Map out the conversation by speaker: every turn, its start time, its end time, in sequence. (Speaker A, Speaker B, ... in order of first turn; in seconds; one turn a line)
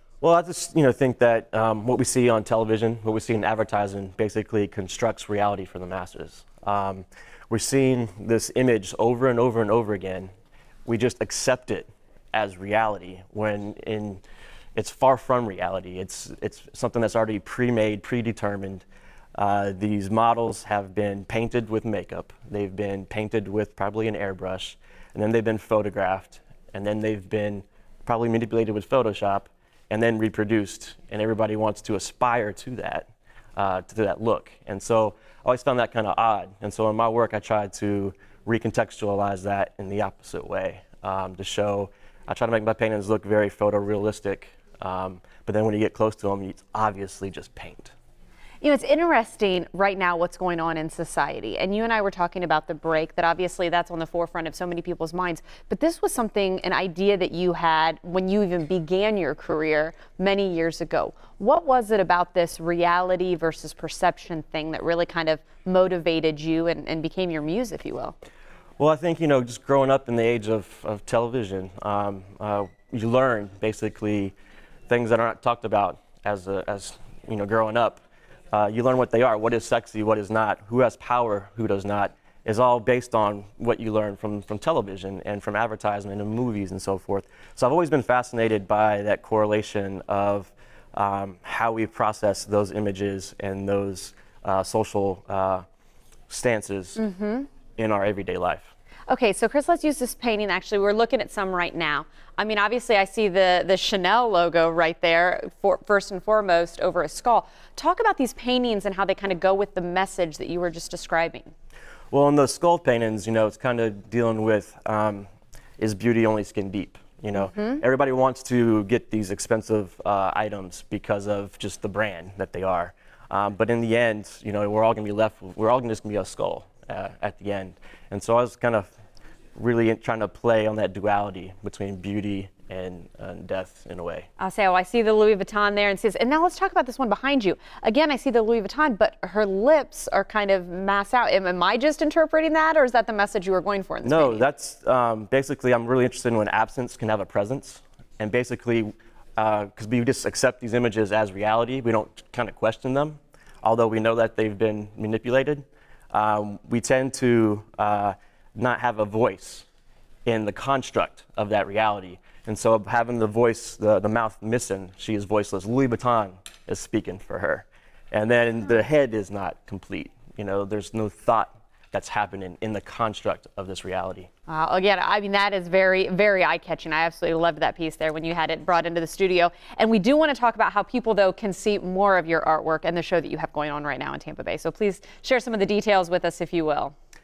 Speaker A: 0.2-10.3
Speaker A: 10.8-14.2
Speaker A: 14.8-18.8
Speaker A: 19.4-47.9
Speaker B: 48.6-68.2
Speaker A: 68.8-74.3
Speaker A: 74.9-78.0
Speaker A: 78.5-95.6
Speaker A: 96.3-97.0
Speaker B: 97.0-97.5
Speaker A: 97.8-98.7
Speaker B: 99.1-111.5
Speaker A: 112.1-115.3
Speaker A: 115.8-128.9
Speaker B: 117.3-117.8
Speaker A: 129.6-134.3
Speaker B: 134.4-144.4
Speaker A: 144.0-159.7
Speaker A: 160.2-174.3
Speaker B: 174.5-186.9